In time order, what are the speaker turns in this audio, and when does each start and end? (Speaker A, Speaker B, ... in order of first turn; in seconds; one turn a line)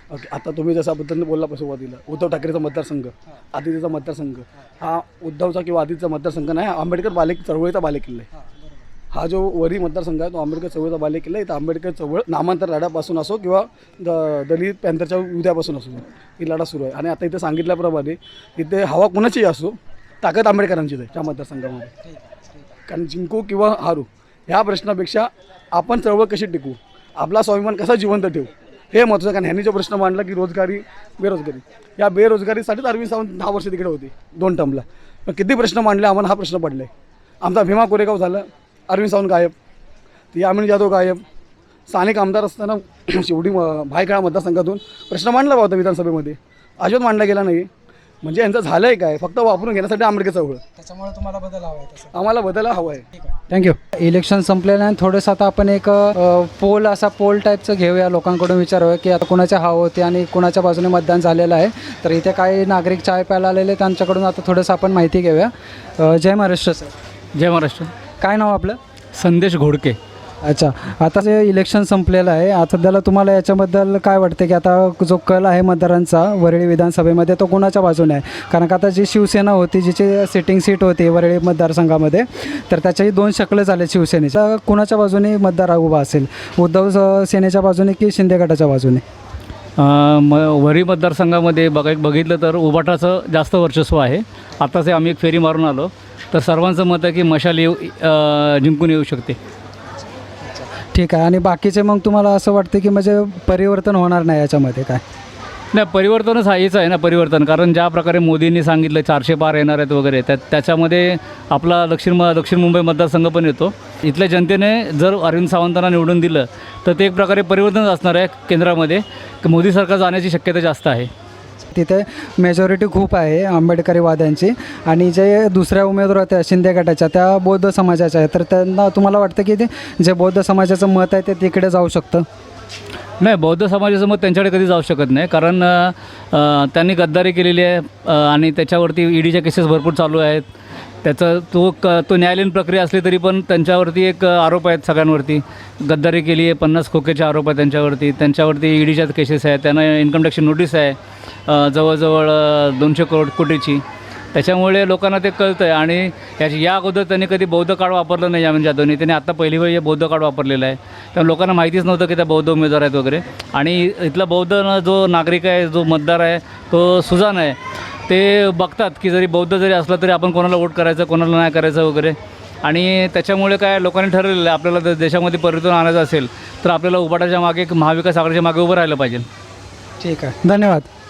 Speaker A: 0.1-8.3
Speaker B: 8.3-8.8
Speaker A: 9.1-21.9
Speaker B: 22.1-22.8
Speaker A: 22.9-36.9
Speaker A: 37.4-39.5
Speaker A: 40.3-41.2
Speaker A: 41.9-47.7
Speaker A: 48.2-50.6
Speaker B: 50.8-52.1
Speaker A: 52.1-53.1
Speaker B: 53.1-66.9
Speaker C: 67.3-67.9
Speaker B: 68.2-68.8
Speaker C: 69.1-70.0
Speaker B: 70.4-89.0
Speaker C: 89.8-99.4
Speaker B: 100.4-105.0
Speaker C: 105.7-121.1
Speaker B: 121.7-132.3
Speaker C: 133.2-140.4
Speaker C: 141.0-151.0
Speaker C: 151.5-153.8
Speaker C: 154.3-167.6
Speaker C: 168.1-179.3
Speaker B: 180.0-180.9